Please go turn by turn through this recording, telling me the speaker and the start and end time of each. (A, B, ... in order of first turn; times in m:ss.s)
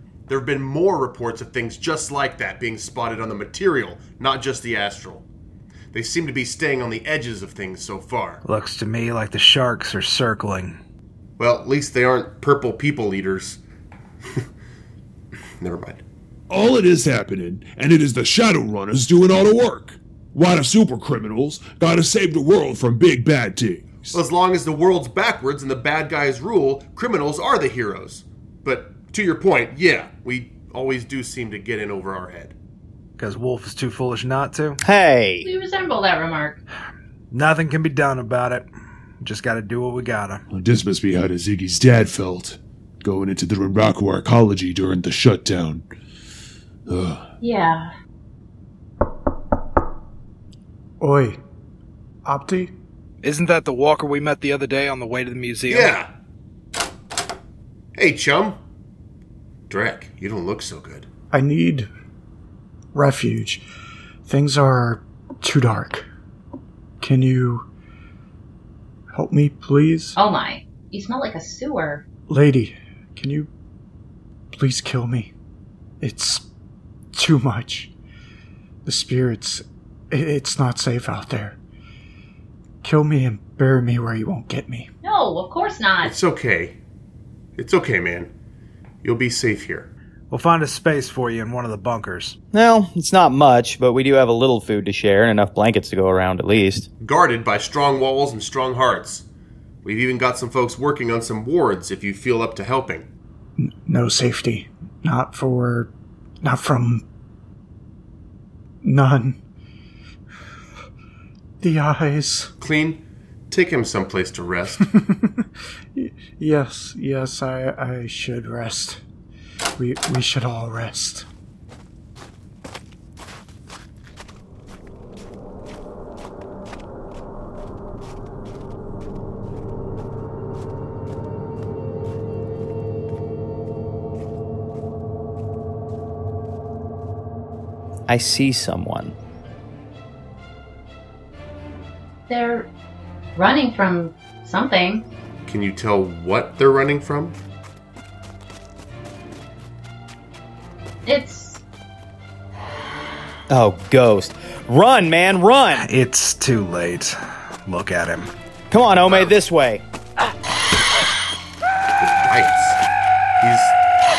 0:00.3-0:05.3 A
0:05.9-0:08.4 A
0:08.4-0:10.8 B
0:11.4-0:13.6 A
0:15.6-0:16.0 A
0:16.5-0:24.2 C
0:24.1-0:32.6 A
0:33.2-0:34.8 B
0:34.8-0:35.5 D
0:35.4-0:36.6 E
0:37.3-0:38.7 B
0:39.2-0:40.4 B
0:40.5-0:45.8 C
0:46.9-0:47.2 C
0:47.4-0:47.9 E
0:51.0-0:51.4 F
0:52.2-0:52.7 F
0:53.2-0:56.0 B
0:55.7-0:56.1 A
0:58.0-0:58.6 A
0:59.7-1:01.1 A
1:01.3-1:01.9 F
1:02.9-1:03.6 F
1:04.3-1:06.1 F
1:07.0-1:07.6 F
1:09.1-1:10.2 F
1:10.2-1:12.0 E
1:12.3-1:13.5 F
1:14.5-1:15.3 F
1:16.0-1:16.5 F
1:17.1-1:17.9 F
1:18.8-1:21.6 F
1:22.8-1:24.9 F
1:25.0-1:26.1 E
1:26.0-1:26.8 A
1:27.6-1:28.3 A
1:29.0-1:29.9 A
1:30.3-1:32.4 B
1:32.5-1:36.9 D
1:37.0-1:39.2 A
1:39.8-1:43.1 A
1:43.6-1:47.0 F
1:48.8-1:49.4 F
1:51.6-1:52.5 F
1:52.6-1:54.8 A
1:54.8-1:55.3 F
1:56.0-1:59.0 F
1:59.8-2:01.3 F
2:18.1-2:19.2 D
2:22.3-2:22.7 E
2:23.4-2:25.1 E
2:25.5-2:27.4 A
2:31.1-2:31.6 E
2:33.5-2:35.8 D
2:35.7-2:38.3 B
2:38.7-2:39.8 D
2:42.0-2:42.8 A
2:43.4-2:43.8 A